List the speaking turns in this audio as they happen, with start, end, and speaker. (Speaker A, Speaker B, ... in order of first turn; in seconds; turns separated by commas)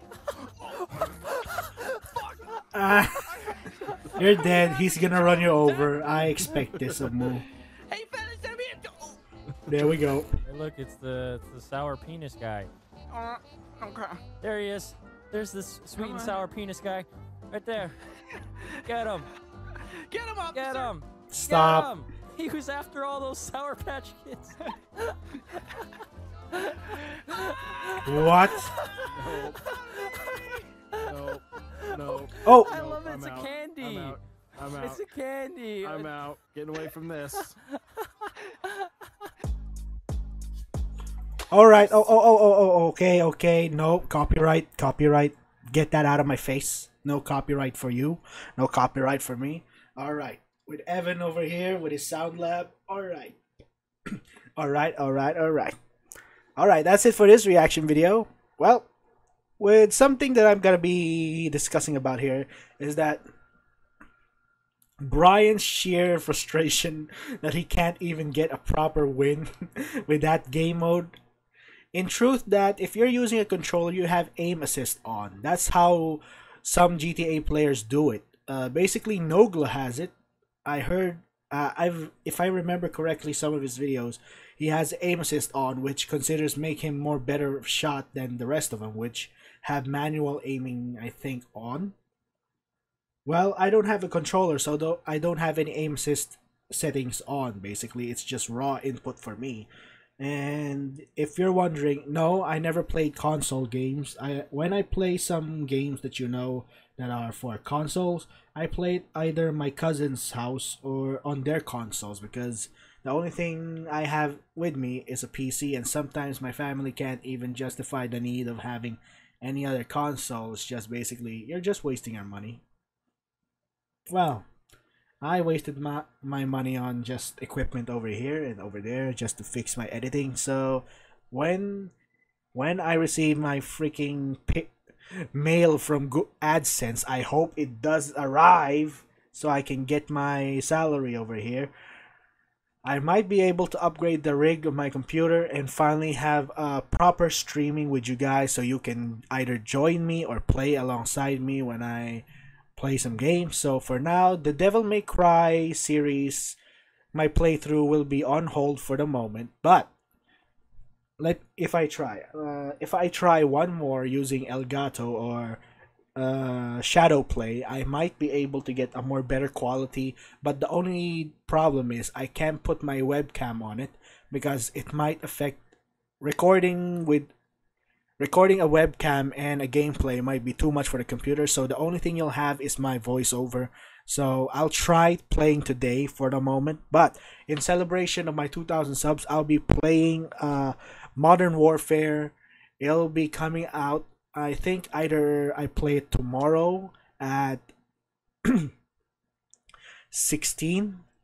Speaker A: 0.4-2.0, Speaker B: 0.6-1.4, Speaker B: 2.0-6.2, Speaker C: 2.7-3.3, Speaker A: 3.6-4.5, Speaker C: 4.2-7.4, Speaker D: 6.4-7.2, Speaker B: 7.9-9.2, Speaker D: 9.6-9.9, Speaker C: 9.7-10.3, Speaker A: 10.4-12.7, Speaker B: 13.1-14.2, Speaker A: 14.4-18.0, Speaker B: 15.9-16.4, Speaker B: 18.3-18.8, Speaker A: 18.8-19.3, Speaker B: 19.7-20.9, Speaker A: 20.5-25.2, Speaker C: 21.3-21.9, Speaker A: 26.5-29.1, Speaker C: 28.0-28.7, Speaker D: 29.1-29.6, Speaker A: 29.9-31.1, Speaker B: 30.0-30.6, Speaker D: 31.1-35.0, Speaker A: 31.8-34.2, Speaker C: 32.4-32.8, Speaker A: 34.8-36.1, Speaker D: 35.8-37.6, Speaker A: 37.7-38.9, Speaker C: 41.5-53.4, Speaker C: 54.1-55.8, Speaker C: 56.6-58.9, Speaker C: 59.6-63.2, Speaker C: 65.0-71.1, Speaker C: 71.9-80.1, Speaker C: 80.6-91.9, Speaker C: 93.3-99.7, Speaker C: 100.2-122.6, Speaker C: 124.1-124.5, Speaker C: 125.2-131.9, Speaker C: 132.5-134.7, Speaker C: 135.3-141.7, Speaker C: 142.8-152.2, Speaker C: 152.8-156.6, Speaker C: 157.1-159.9, Speaker C: 161.2-165.6, Speaker C: 166.2-175.6, Speaker C: 176.2-177.3, Speaker C: 178.2-197.7, Speaker C: 198.4-198.7, Speaker C: 200.1-201.0